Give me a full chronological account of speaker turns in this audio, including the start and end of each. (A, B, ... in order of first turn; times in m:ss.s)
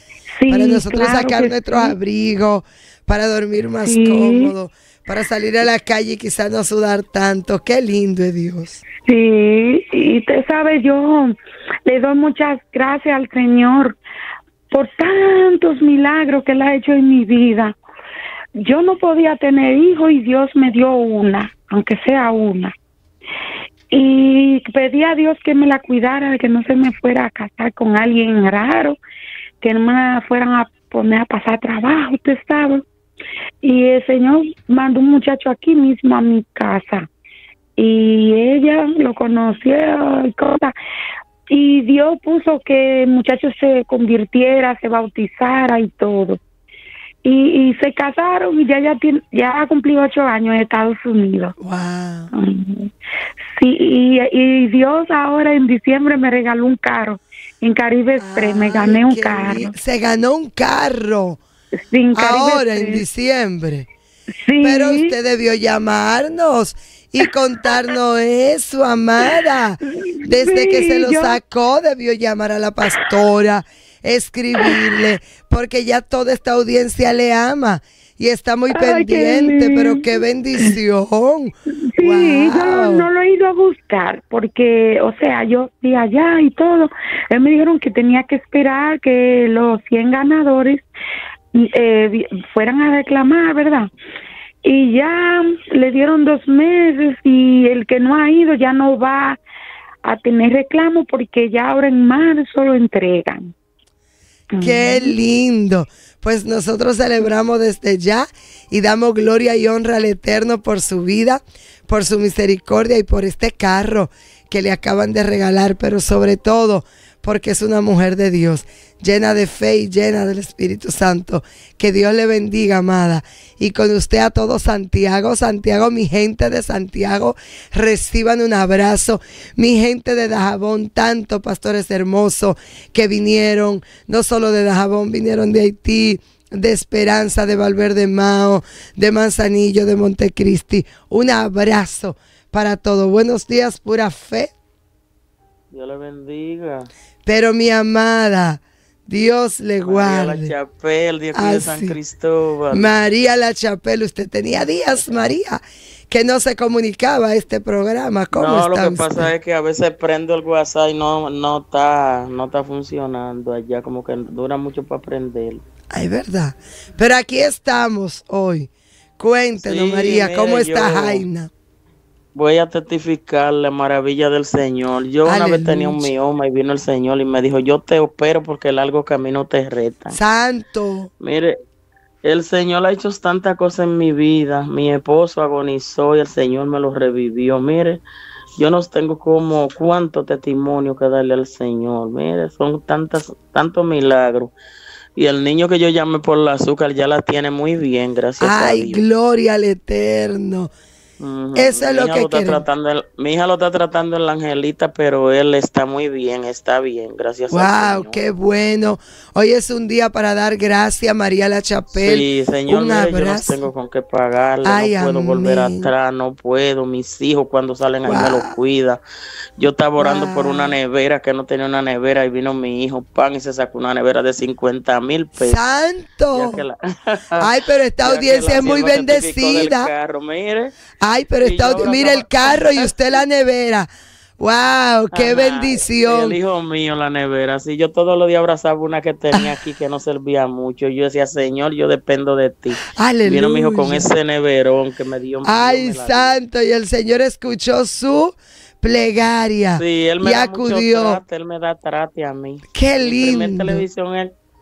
0:00.3-0:02.0 A
0:00.5-0:08.8 B
0:03.8-0:04.5 A
0:09.0-0:11.3 A
0:11.8-0:14.0 A
0:14.7-0:17.7 A
0:18.6-0:22.7 A
0:23.9-0:29.0 A
0:29.6-0:32.8 A
0:33.6-0:37.1 A
0:37.8-0:40.7 A
0:41.5-0:46.4 A
0:47.2-0:51.5 A
0:51.6-0:52.3 B
0:52.3-0:52.9 A
0:53.6-0:59.7 A
0:58.2-1:01.4 B
1:01.9-1:03.0 A
1:02.1-1:03.8 B
1:04.4-1:05.1 A
1:04.6-1:23.1 B
1:10.1-1:11.4 A
1:18.7-1:20.0 A
1:21.9-1:30.8 A
1:31.5-1:33.9 A
1:34.6-1:39.4 A
1:40.0-1:43.5 A
1:44.5-1:45.1 A
1:44.6-2:24.5 B
2:25.7-2:26.9 C
2:27.2-2:30.5 B
2:29.8-2:32.9 C
2:31.3-2:32.0 B
2:32.7-2:39.3 B
2:34.7-2:35.2 C
2:38.3-2:45.6 C
2:45.9-2:51.5 B
2:49.6-2:51.2 C
2:52.3-3:00.2 C
2:55.2-2:56.1 B
3:00.1-3:01.1 B
3:01.2-3:01.6 C
3:02.2-3:08.0 C
3:08.6-3:14.5 C
3:15.2-3:19.0 C
3:18.4-3:20.7 B
3:21.2-3:28.2 C
3:21.5-3:22.6 B
3:27.5-3:33.6 B
3:31.9-3:39.0 C
3:34.6-3:35.9 B
3:38.0-3:38.5 B
3:39.6-3:45.6 C
3:40.0-3:40.8 B
3:45.4-3:46.6 B
3:46.3-3:47.5 C
3:47.4-3:49.9 B
3:48.0-3:50.8 C
3:51.0-3:53.9 B
3:51.4-3:52.9 C
3:54.4-3:56.4 B
3:55.1-4:06.4 C
4:02.8-4:04.1 B
4:05.4-4:11.2 B
4:09.8-4:14.3 C
4:12.7-4:13.8 B